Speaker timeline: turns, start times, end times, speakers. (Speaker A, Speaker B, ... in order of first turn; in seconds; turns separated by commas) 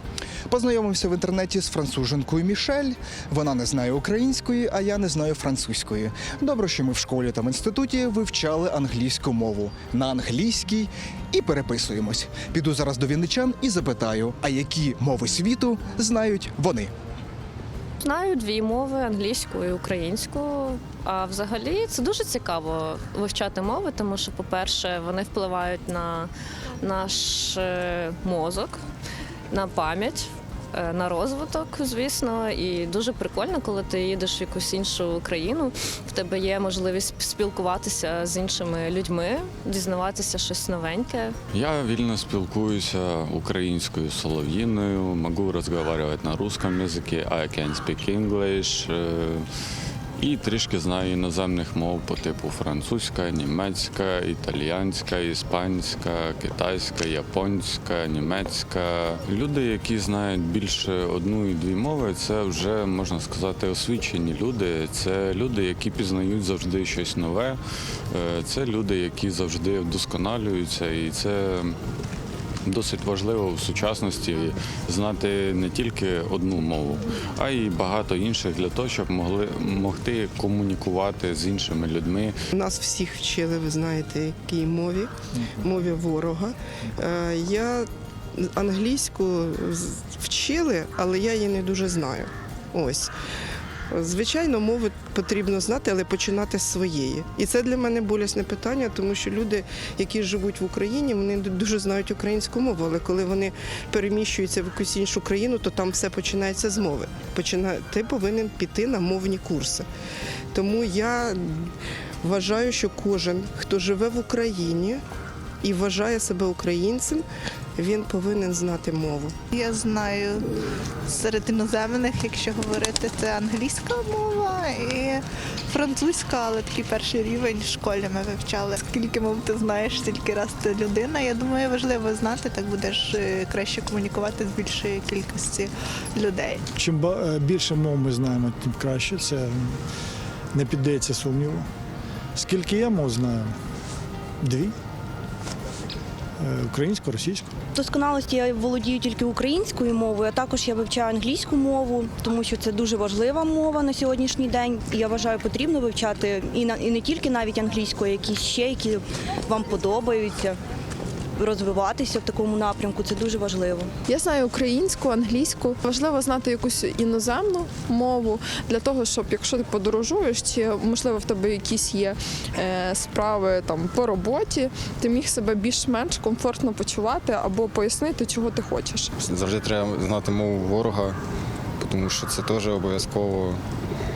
Speaker A: 0.5-16.9, Speaker B: 18.0-28.8, Speaker B: 29.5-41.4, Speaker C: 41.5-49.4, Speaker C: 50.2-67.6, Speaker C: 68.1-71.8, Speaker C: 72.6-82.3, Speaker D: 82.5-93.1, Speaker D: 93.9-109.8, Speaker D: 110.5-111.7, Speaker D: 112.2-115.0, Speaker D: 115.6-117.2, Speaker D: 117.8-119.3, Speaker E: 119.5-120.5, Speaker E: 121.1-136.6, Speaker F: 136.8-139.5, Speaker F: 140.5-141.7, Speaker F: 142.4-143.5, Speaker F: 144.4-144.7, Speaker F: 146.4-147.4, Speaker G: 147.7-160.6, Speaker G: 161.3-163.9, Speaker H: 164.1-179.1, Speaker I: 179.2-181.2, Speaker I: 181.8-183.6